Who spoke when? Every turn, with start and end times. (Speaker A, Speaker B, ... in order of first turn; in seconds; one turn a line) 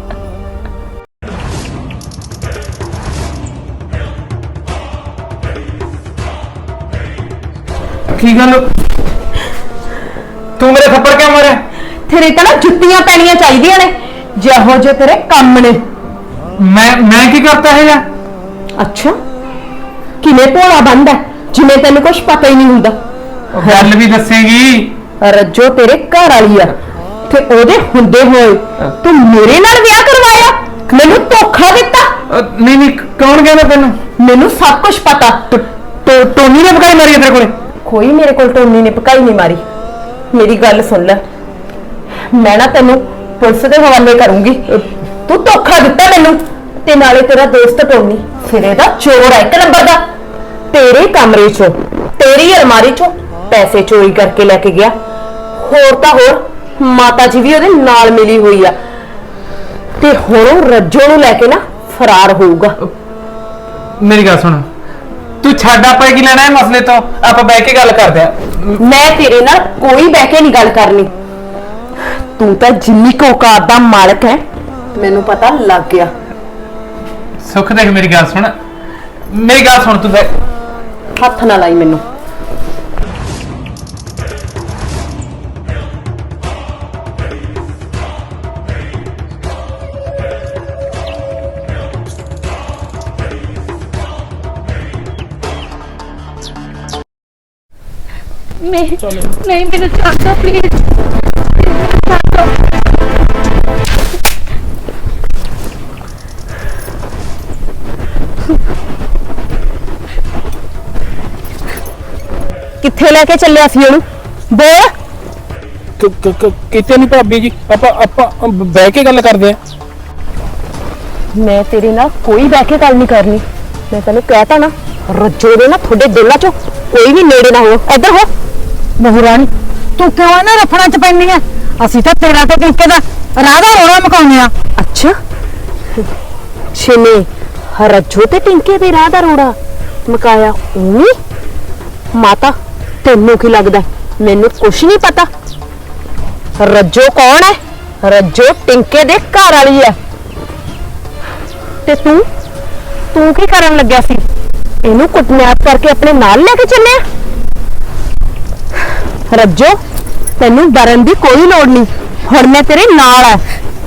Speaker A: 8.1-8.7
Speaker A: 10.6-11.6
Speaker B: 12.1-15.8
Speaker A: 16.6-18.0
Speaker B: 18.8-19.2
Speaker B: 20.2-23.0
Speaker A: 23.5-24.9
Speaker B: 23.6-23.9
Speaker B: 25.2-26.7
Speaker B: 27.3-32.2
Speaker A: 32.3-34.0
Speaker B: 34.2-35.7
Speaker A: 36.1-37.5
Speaker B: 37.8-39.6
Speaker B: 40.3-41.2
Speaker B: 42.3-50.0
Speaker B: 50.7-55.0
Speaker B: 55.6-58.8
Speaker B: 60.0-62.8
Speaker A: 64.0-64.7
Speaker A: 65.4-68.8
Speaker B: 68.8-71.1
Speaker B: 72.4-74.4
Speaker B: 74.9-76.1
Speaker A: 77.4-78.5
Speaker A: 79.3-80.3
Speaker B: 81.2-82.0
Speaker C: 98.6-100.8
Speaker C: 101.6-102.5
Speaker B: 112.8-114.9
Speaker D: 116.0-119.6
Speaker B: 121.3-128.3
Speaker E: 129.0-134.5
Speaker B: 134.8-135.2
Speaker B: 136.7-141.2
Speaker B: 142.1-145.3
Speaker B: 146.6-150.0
Speaker B: 151.8-152.3
Speaker B: 153.1-154.2
Speaker B: 154.8-157.0
Speaker B: 159.3-159.8
Speaker B: 160.4-163.4